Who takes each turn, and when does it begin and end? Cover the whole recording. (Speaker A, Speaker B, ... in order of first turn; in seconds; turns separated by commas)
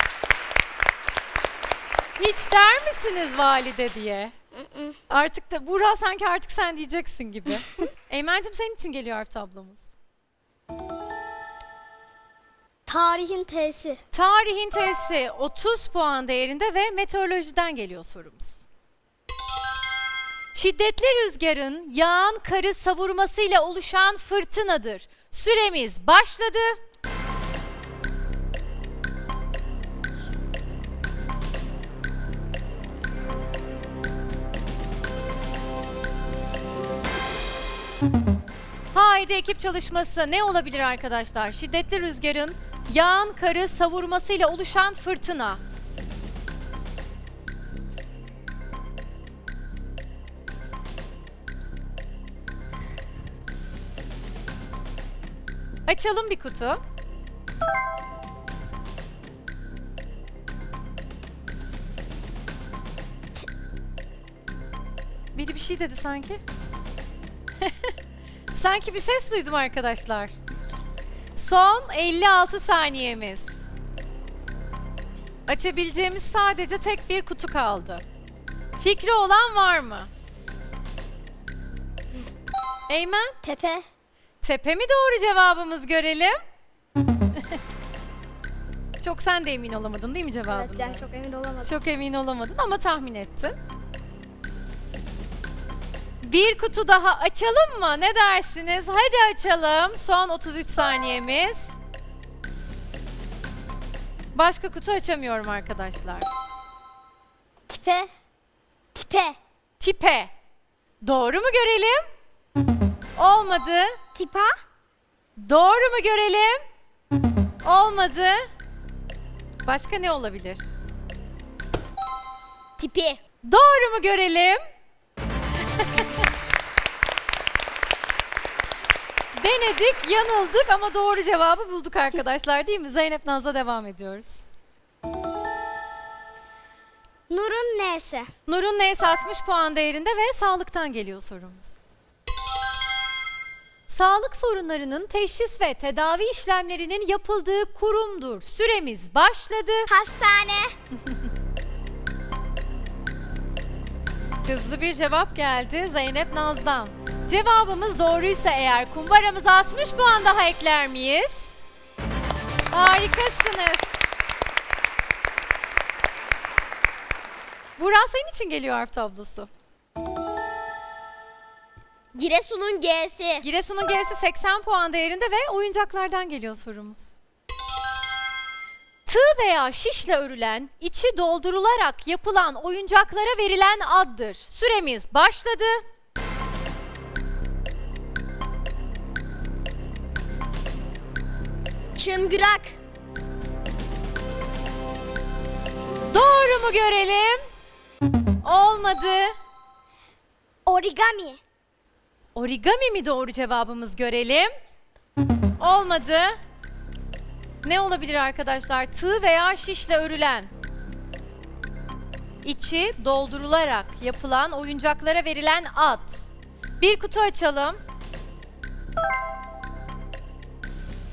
Speaker A: 2.2-4.3, Speaker B: 4.7-5.0, Speaker A: 5.1-9.9, Speaker B: 12.9-14.0, Speaker A: 14.1-18.6, Speaker A: 20.5-26.8, Speaker A: 38.9-45.6, Speaker A: 55.9-56.8, Speaker A: 65.3-66.4, Speaker A: 67.6-67.9, Speaker A: 68.5-70.3, Speaker A: 71.4-73.6, Speaker A: 75.5-78.0, Speaker A: 78.8-80.1, Speaker A: 82.9-83.4, Speaker B: 83.4-83.8, Speaker A: 84.4-86.4, Speaker A: 89.0-91.1, Speaker B: 90.5-91.7, Speaker A: 91.7-93.6, Speaker A: 96.2-101.7, Speaker A: 104.3-106.3, Speaker B: 107.7-108.1, Speaker B: 109.0-109.4, Speaker A: 109.8-110.3, Speaker A: 111.0-112.0, Speaker A: 113.2-114.0, Speaker B: 114.2-114.6, Speaker A: 115.4-116.6, Speaker A: 117.6-118.4, Speaker A: 119.7-120.6, Speaker C: 122.8-123.2, Speaker A: 123.4-124.6, Speaker A: 129.4-134.4, Speaker B: 137.3-138.3, Speaker A: 138.5-141.8, Speaker A: 143.9-149.9, Speaker B: 149.9-150.8, Speaker A: 154.5-161.6, Speaker A: 162.7-164.0, Speaker A: 167.8-169.5, Speaker C: 172.1-173.4, Speaker A: 173.4-177.2, Speaker A: 179.1-185.8, Speaker C: 192.0-192.8, Speaker A: 196.1-197.5, Speaker A: 198.4-199.3, Speaker B: 200.7-201.4, Speaker A: 202.3-204.5, Speaker A: 205.6-206.4, Speaker A: 207.6-210.5, Speaker A: 212.4-217.8